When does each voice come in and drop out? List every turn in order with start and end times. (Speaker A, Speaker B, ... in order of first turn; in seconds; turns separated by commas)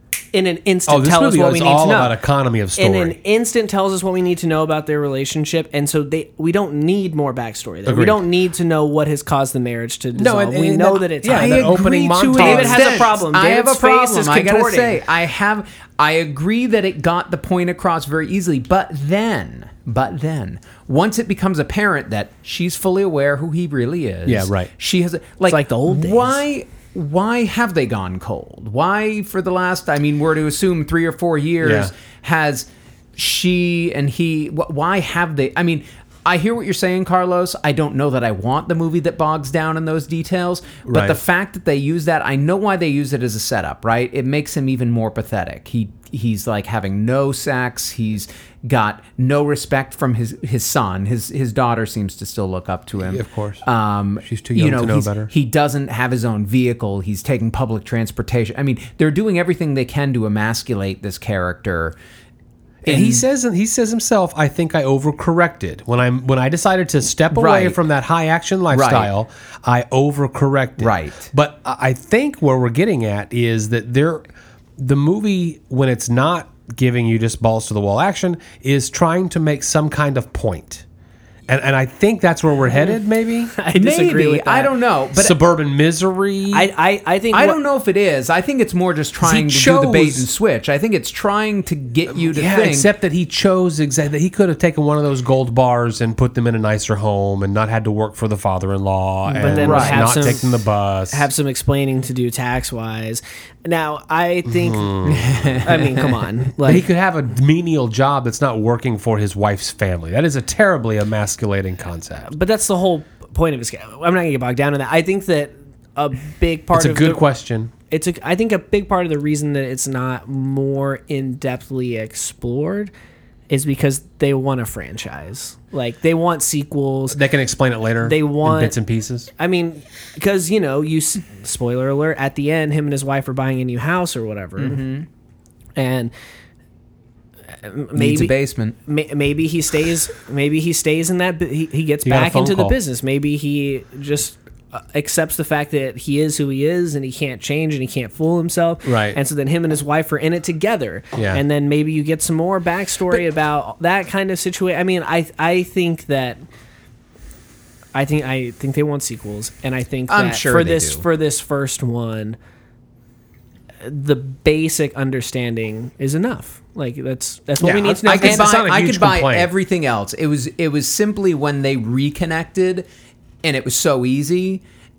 Speaker A: 0.3-2.1, Speaker B: 0.9-3.2, Speaker A: 2.8-15.0, Speaker B: 7.8-8.2, Speaker B: 10.1-13.1, Speaker C: 11.2-62.0, Speaker B: 24.2-24.7, Speaker A: 25.5-26.4, Speaker B: 31.6-31.9, Speaker B: 40.9-41.2, Speaker B: 53.1-53.6, Speaker B: 54.2-55.3, Speaker B: 62.8-74.2, Speaker C: 62.8-63.2, Speaker C: 67.3-67.8, Speaker C: 68.7-69.1, Speaker C: 70.8-71.3, Speaker B: 74.8-80.8, Speaker B: 81.5-83.5, Speaker A: 83.5-84.7, Speaker C: 83.7-85.4, Speaker B: 85.1-86.7, Speaker A: 86.5-87.6, Speaker C: 87.3-92.9, Speaker B: 89.2-90.3, Speaker B: 92.1-101.3, Speaker A: 99.3-100.4, Speaker C: 99.4-100.2, Speaker A: 101.1-105.0, Speaker B: 104.5-105.7, Speaker C: 105.0-106.1, Speaker A: 105.6-106.8, Speaker B: 106.6-112.3, Speaker A: 112.2-117.2, Speaker B: 116.7-117.7, Speaker A: 117.9-122.9, Speaker A: 123.5-127.2, Speaker B: 127.1-129.3, Speaker A: 128.0-128.8, Speaker A: 129.4-134.8, Speaker C: 134.6-135.1, Speaker A: 135.8-136.1, Speaker A: 137.5-156.4, Speaker C: 137.9-138.8, Speaker B: 142.0-142.8, Speaker B: 148.8-149.2, Speaker B: 151.1-151.4, Speaker A: 157.9-162.4, Speaker C: 160.1-161.0, Speaker A: 163.8-168.5, Speaker B: 167.6-169.5, Speaker C: 168.1-172.8, Speaker C: 173.4-174.6